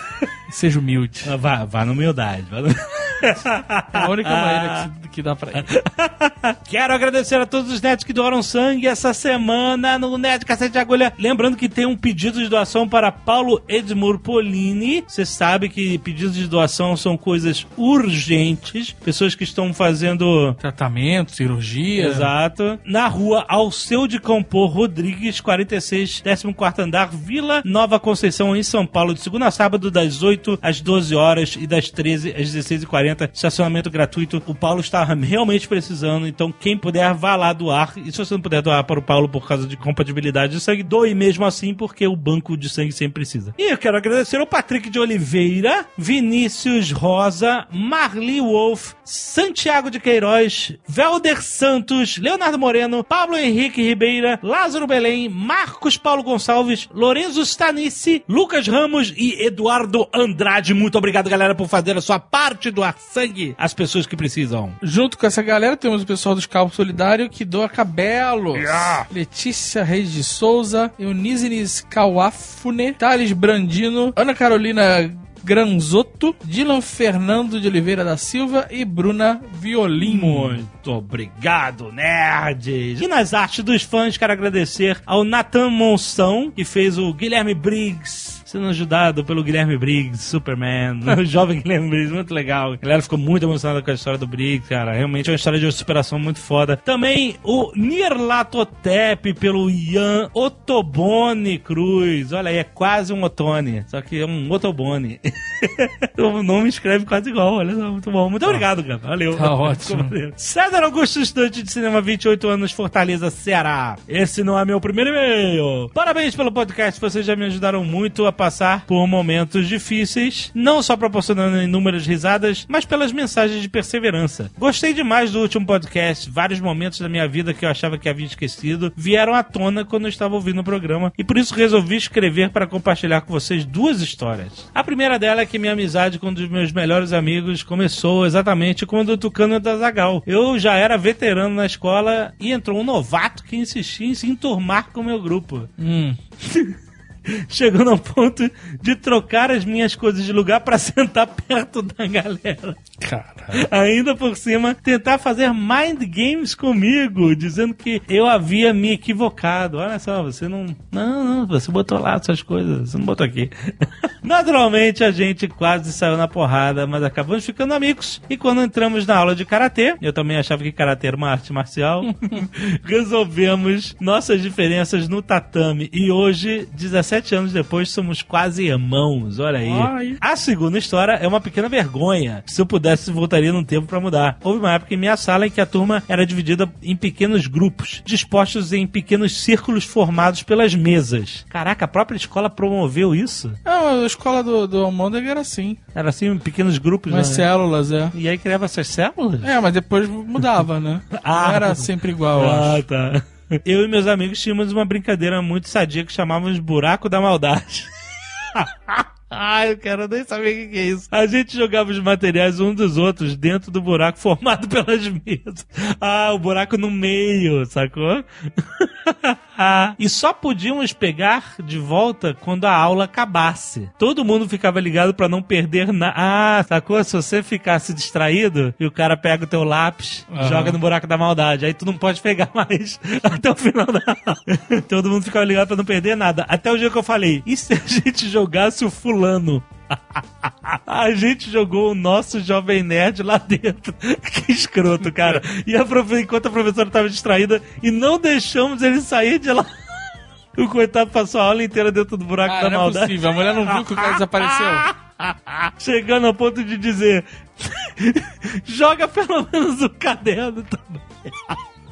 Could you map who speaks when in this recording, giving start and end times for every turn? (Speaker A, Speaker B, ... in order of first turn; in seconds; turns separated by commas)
Speaker A: 0.5-1.3, Speaker B: 1.2-4.8, Speaker A: 3.9-5.7, Speaker B: 5.5-20.6, Speaker A: 20.6-22.3, Speaker B: 21.9-64.8, Speaker A: 64.8-80.6, Speaker B: 68.5-69.1, Speaker B: 80.0-145.7, Speaker A: 109.3-110.2, Speaker A: 145.8-146.2, Speaker B: 146.4-152.8, Speaker A: 153.0-153.6, Speaker B: 153.5-193.6, Speaker A: 179.6-180.2, Speaker A: 193.7-195.8, Speaker B: 195.9-197.4, Speaker A: 197.1-198.2, Speaker B: 198.1-199.5, Speaker A: 199.4-202.8, Speaker B: 201.1-249.7, Speaker A: 230.3-230.8, Speaker B: 250.6-261.6, Speaker A: 252.4-254.9